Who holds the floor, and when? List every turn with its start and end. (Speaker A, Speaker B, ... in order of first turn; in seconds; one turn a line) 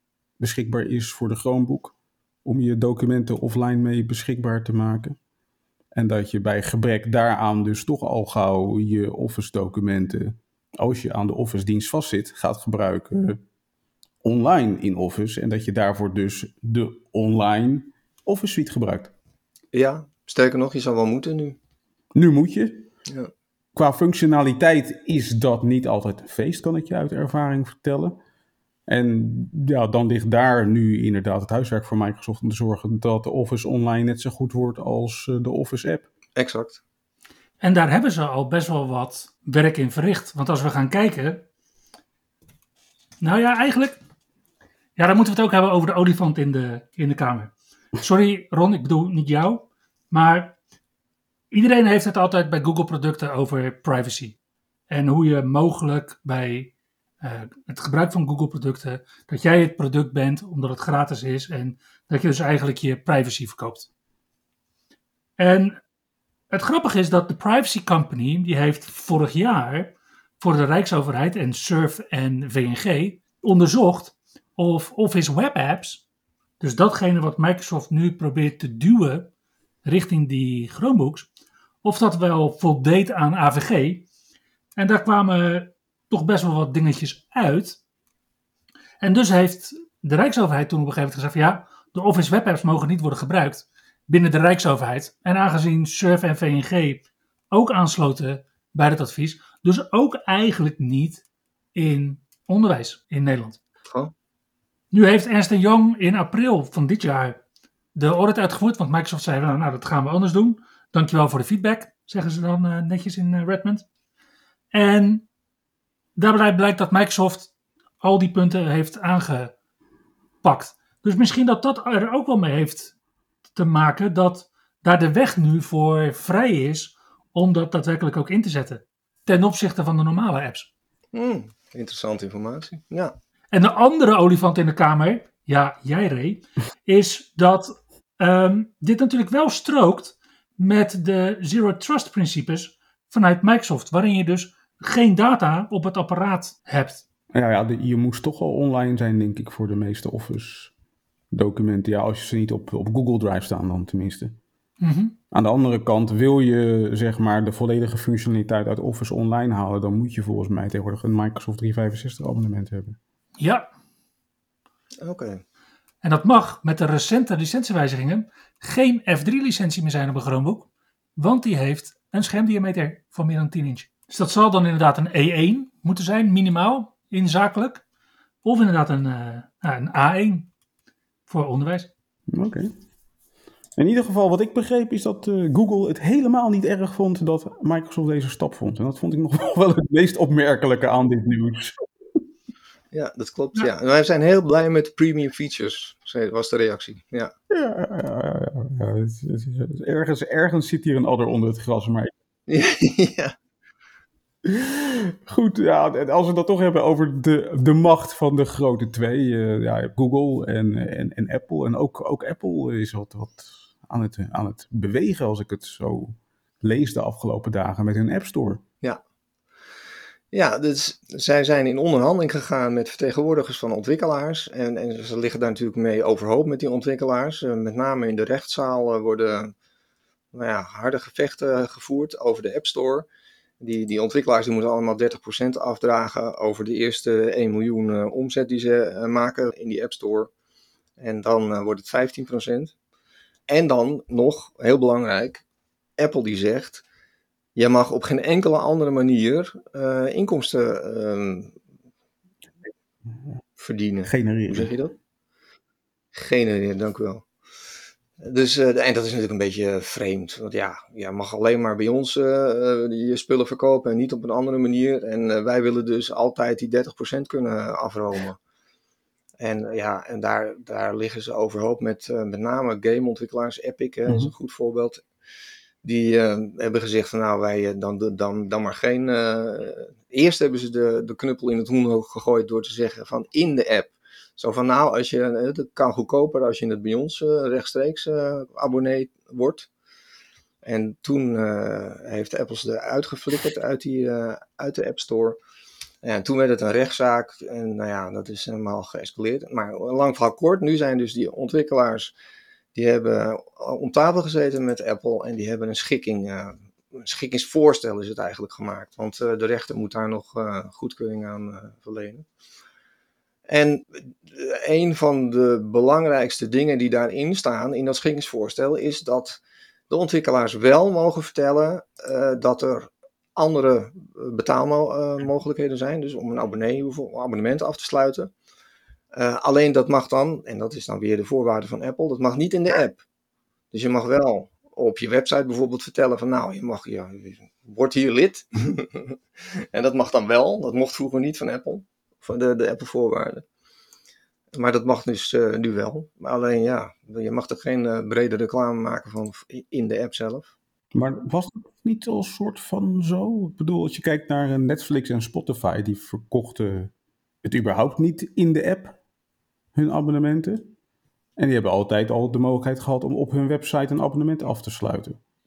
Speaker A: 0.4-5.2
Speaker A: 5.9-13.4
Speaker A: 14.2-19.1
Speaker B: 19.7-21.6
Speaker A: 22.1-22.9
Speaker A: 23.8-28.2
Speaker A: 28.9-36.0
Speaker B: 36.4-36.8
Speaker C: 37.6-41.4
Speaker C: 43.2-44.0
Speaker C: 45.0-50.5
Speaker C: 51.5-54.4
Speaker C: 54.9-63.9
Speaker C: 65.4-65.8
Speaker C: 66.5-76.0
Speaker C: 76.6-79.3
Speaker C: 79.8-81.3
Speaker C: 81.8-84.0
Speaker C: 84.8-87.8
Speaker C: 89.0-101.2
Speaker C: 101.7-103.6
Speaker B: 103.9-104.1
Speaker C: 104.9-107.4
Speaker C: 107.9-113.8
Speaker C: 114.7-115.2
Speaker C: 116.2-119.5
Speaker C: 120.4-122.9
Speaker C: 123.5-130.7
Speaker B: 131.1-133.1
Speaker C: 133.5-147.0
Speaker A: 147.3-150.7
Speaker A: 151.3-154.4
Speaker C: 154.8-155.2
Speaker A: 155.3-163.0
Speaker C: 163.4-163.7
Speaker B: 165.0-165.4
Speaker C: 166.0-177.8
Speaker C: 178.4-180.5
Speaker C: 181.3-181.9
Speaker A: 182.3-182.7
Speaker A: 183.8-191.8
Speaker B: 192.9-197.3
Speaker A: 197.5-202.1
Speaker B: 202.5-203.3
Speaker A: 204.4-218.6
Speaker B: 220.3-229.5
Speaker B: 230.3-233.1
Speaker B: 233.6-240.3
Speaker B: 241.0-242.7
Speaker B: 243.5-245.4
Speaker B: 246.0-246.8
Speaker B: 247.6-251.5
Speaker B: 253.6-254.9
Speaker A: 254.0-254.7
Speaker B: 256.1-257.2
Speaker B: 258.2-268.4
Speaker B: 269.4-275.0
Speaker A: 274.1-274.3
Speaker B: 275.8-289.7
Speaker B: 290.6-295.4
Speaker B: 296.0-302.1
Speaker B: 302.7-312.2
Speaker B: 313.5-328.3
Speaker B: 329.1-333.0
Speaker B: 333.7-343.4
Speaker B: 344.5-350.5
Speaker A: 350.9-356.9
Speaker A: 357.4-359.0
Speaker A: 359.7-360.7
Speaker A: 361.4-365.2